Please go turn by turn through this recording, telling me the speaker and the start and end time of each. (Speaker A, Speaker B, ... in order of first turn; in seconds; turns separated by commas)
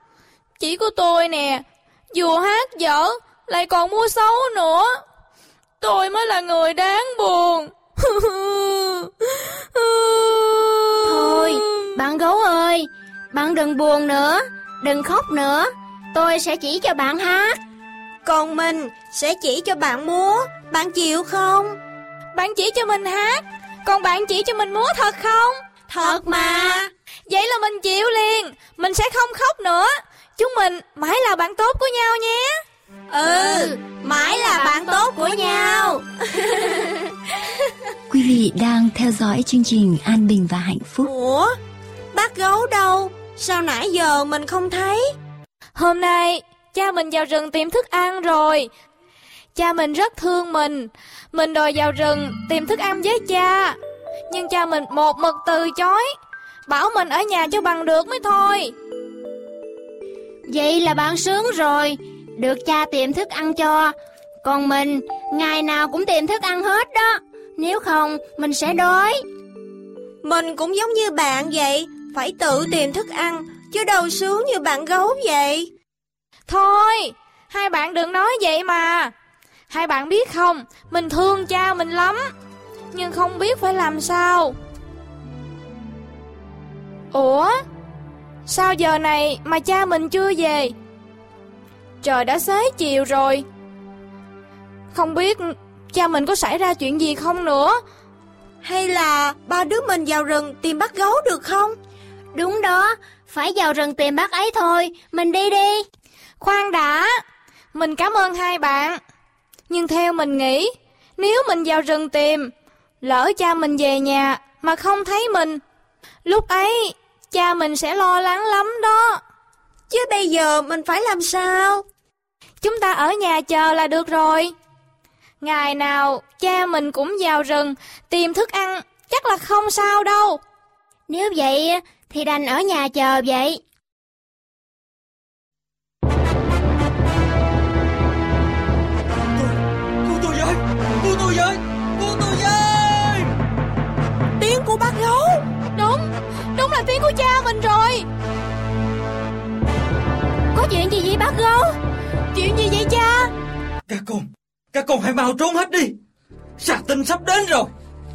Speaker A: 0.6-5.0, Speaker A: 5.8-11.9, Speaker B: 11.1-17.6, Speaker C: 18.2-21.8, Speaker A: 22.3-25.6, Speaker C: 25.9-26.9, Speaker B: 26.0-26.7, Speaker A: 27.3-32.6, Speaker C: 33.1-36.7, Speaker B: 34.5-34.8, Speaker D: 38.1-41.1, Speaker C: 41.0-41.6, Speaker C: 42.1-45.1, Speaker A: 45.8-48.7, Speaker A: 49.5-53.8, Speaker A: 54.3-56.1, Speaker A: 56.7-58.7, Speaker B: 60.5-69.2, Speaker C: 70.2-75.7, Speaker A: 76.5-79.1, Speaker A: 79.7-82.3, Speaker A: 82.9-84.5, Speaker A: 87.1-87.6, Speaker A: 88.5-90.7, Speaker A: 92.0-93.4, Speaker A: 94.9-97.8, Speaker C: 98.6-101.8, Speaker B: 102.3-105.8, Speaker A: 106.4-107.2, Speaker A: 107.7-109.0, Speaker A: 109.7-112.5, Speaker A: 113.0-115.6, Speaker A: 116.2-119.2, Speaker C: 119.9-121.8, Speaker A: 122.6-124.5, Speaker A: 125.4-130.4, Speaker B: 131.1-133.6, Speaker E: 140.0-143.3, Speaker A: 144.4-148.1, Speaker A: 150.5-151.7, Speaker A: 152.3-153.3, Speaker E: 153.9-155.9, Speaker E: 156.6-157.7